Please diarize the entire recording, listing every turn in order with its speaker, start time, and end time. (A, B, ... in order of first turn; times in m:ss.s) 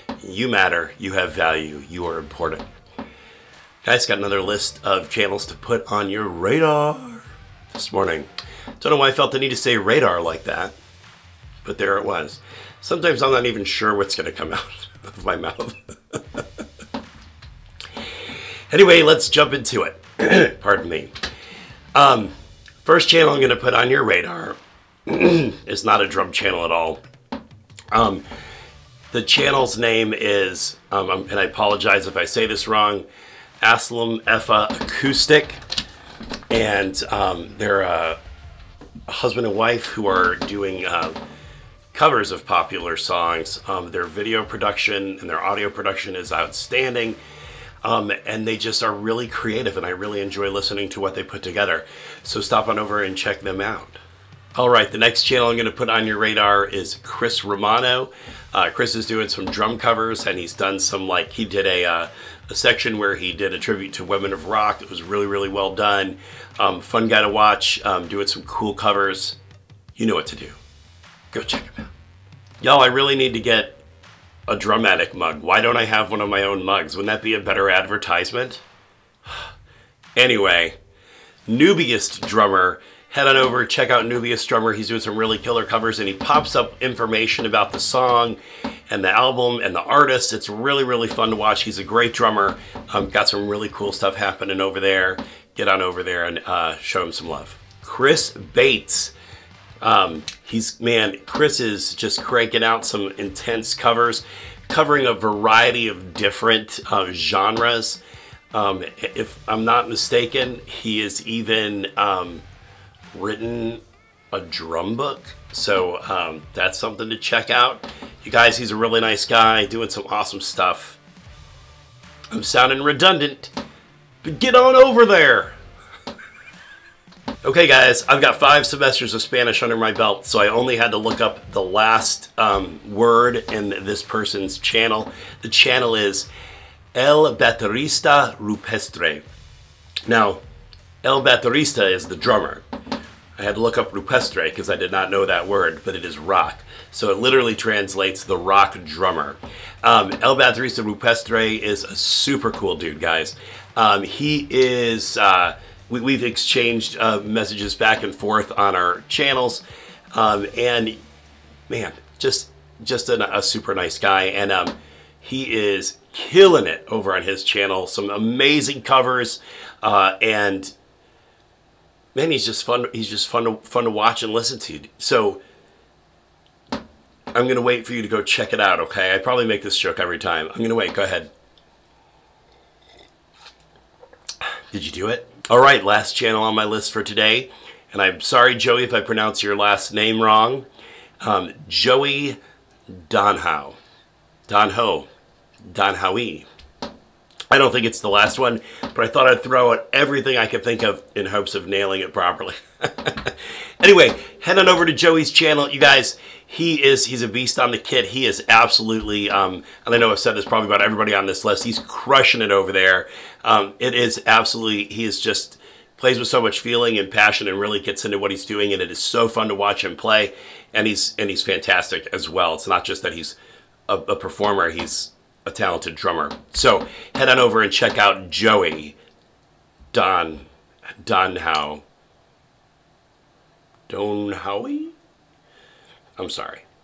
0:00.2-0:02.7 A
0:03.8-0:08.3 A
0:08.8-0:10.7 A
0:11.6-0:16.4 A
0:18.7-0:21.1 A
0:21.9-0:27.0 A
0:27.9-0:28.2 A
0:29.1-0:33.0 A
0:33.6-0:35.6 A
0:36.5-0:38.2 A
0:39.1-0:41.2 A
0:41.9-0:47.2 A
0:47.8-0:54.0 A
0:54.6-1:09.4 A
1:10.0-1:10.6 A
1:11.3-1:11.9 A
1:12.6-1:13.8 A
1:14.5-1:18.6 A
1:20.2-1:20.8 A
1:21.5-1:39.1 A
1:39.8-1:48.0 A
1:48.5-1:52.4 A
1:53.1-2:01.0 A
2:02.3-2:03.5 A
2:04.2-2:05.6 A
2:07.4-2:16.3 A
2:16.9-2:19.2 A
2:20.0-2:20.4 A
2:21.0-2:22.6 A
2:23.4-2:39.6 A
2:40.1-2:41.0 A
2:41.7-2:50.7 A
2:52.1-2:55.4 A
2:57.3-3:01.3 A
3:04.7-3:10.7 A
3:11.2-3:12.4 A
3:12.9-3:13.8 A
3:14.5-3:15.1 A
3:15.7-3:16.5 A
3:17.5-3:43.4 A
3:43.9-3:49.0 A
3:49.9-3:50.4 A
3:51.0-3:51.8 A
3:53.9-3:54.9 A
3:56.2-3:56.6 A